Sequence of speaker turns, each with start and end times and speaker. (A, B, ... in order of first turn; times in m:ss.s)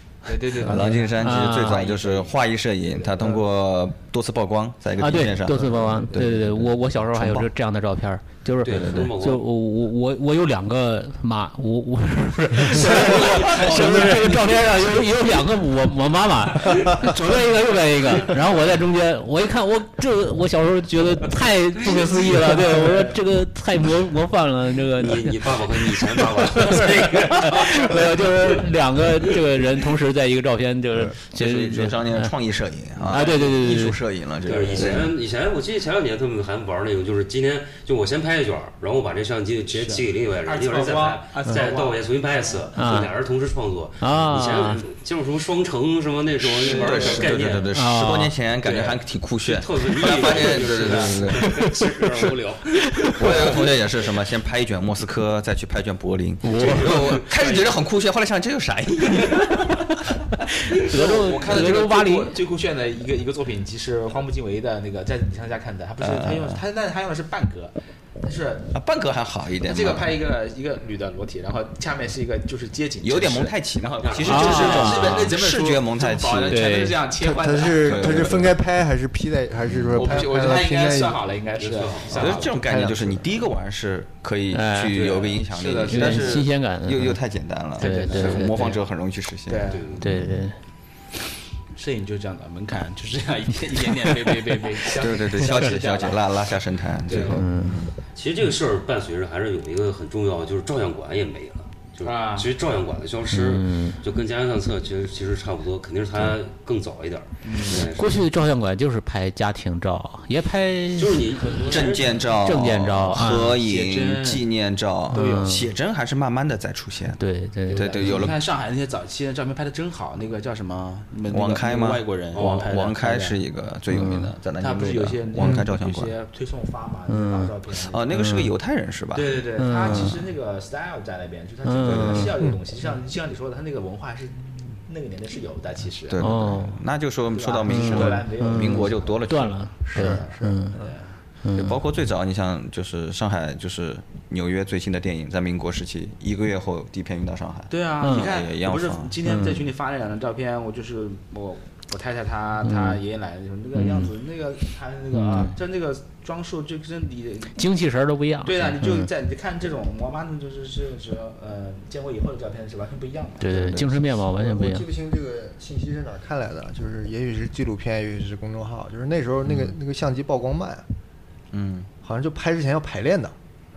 0:00.2-0:02.3 A
0:00.4-0:07.5 B
0:01.2-0:01.8 C
0:03.0-0:03.4 A
0:05.0-0:32.3 C
0:08.6-0:09.5 D
0:08.6-0:09.1 B
0:12.9-0:13.8 A
0:13.0-0:13.8 D
0:13.4-0:14.1 B
0:22.3-0:23.1 A
0:25.0-0:28.6 D
0:26.6-0:28.0 A
0:31.3-0:35.2 B
0:33.1-0:34.0 C
0:33.1-0:33.5 A
0:34.4-0:47.7 D
0:34.5-0:35.1 A
0:39.7-0:42.7 A
0:42.8-0:43.1 C
0:44.0-0:44.8 C
0:46.6-0:51.7 B
0:46.6-0:47.7 A
0:47.7-0:48.4 C
0:48.6-0:49.0 A
0:49.4-0:53.7 D
0:49.9-0:51.4 A
0:51.9-0:52.3 A
0:53.1-1:00.1 B
0:53.2-0:53.8 A
0:56.4-0:57.2 C
0:56.6-0:57.6 D
0:57.4-0:57.7 A
1:00.7-1:08.7 A
1:00.7-1:02.4 C
1:06.0-1:06.6 B
1:08.7-1:10.2 B
1:09.6-1:18.4 A
1:13.0-1:16.9 B
1:14.0-1:14.9 D
1:14.2-1:15.3 C
1:16.5-1:17.0 C
1:17.2-1:21.2 E
1:17.7-1:18.5 B
1:19.7-1:20.2 B
1:19.9-1:22.6 A
1:21.6-1:22.4 D
1:22.1-1:30.2 B
1:22.6-1:23.5 E
1:24.5-1:25.1 C
1:24.9-1:26.4 A
1:25.9-1:27.2 C
1:27.8-1:28.7 C
1:27.8-1:28.8 A
1:29.5-1:30.0 A
1:29.7-1:30.0 D
1:30.0-1:30.6 C
1:31.7-1:36.5 A
1:34.9-1:37.9 B
1:37.0-1:37.5 A
1:37.3-1:37.9 C
1:38.1-1:48.2 D
1:42.0-1:42.5 A
1:43.3-1:44.0 C
1:47.4-1:47.9 A
1:47.9-1:51.3 C
1:51.0-1:52.2 D
1:51.4-1:52.2 A
1:51.6-1:58.4 B
1:52.4-1:53.6 C
1:53.6-1:54.4 A
1:55.1-1:55.7 C
1:55.1-1:55.7 A
1:57.2-1:58.2 C
1:57.7-2:03.4 A
2:01.3-2:06.2 B
2:02.3-2:02.7 D
2:03.9-2:04.3 C
2:04.6-2:08.2 A
2:07.1-2:07.6 C
2:07.7-2:10.1 B
2:08.1-2:08.5 C
2:09.1-2:16.4 A
2:09.6-2:10.2 C
2:11.6-2:12.4 C
2:11.8-2:12.4 B
2:16.1-2:20.1 B
2:16.2-2:16.8 C
2:17.3-2:21.1 A
2:17.6-2:20.8 C
2:19.9-2:20.9 E
2:21.4-2:21.8 C
2:21.5-2:29.2 B
2:27.7-2:37.6 A
2:28.0-2:28.3 C
2:29.2-2:29.7 C
2:32.6-2:33.0 C
2:33.7-2:34.1 C
2:35.1-2:35.6 C
2:37.6-2:39.1 C
2:38.4-2:43.8 A
2:43.4-2:44.9 C
2:43.6-2:44.0 B
2:44.3-2:50.8 E
2:51.5-2:51.9 B
2:52.0-2:53.3 E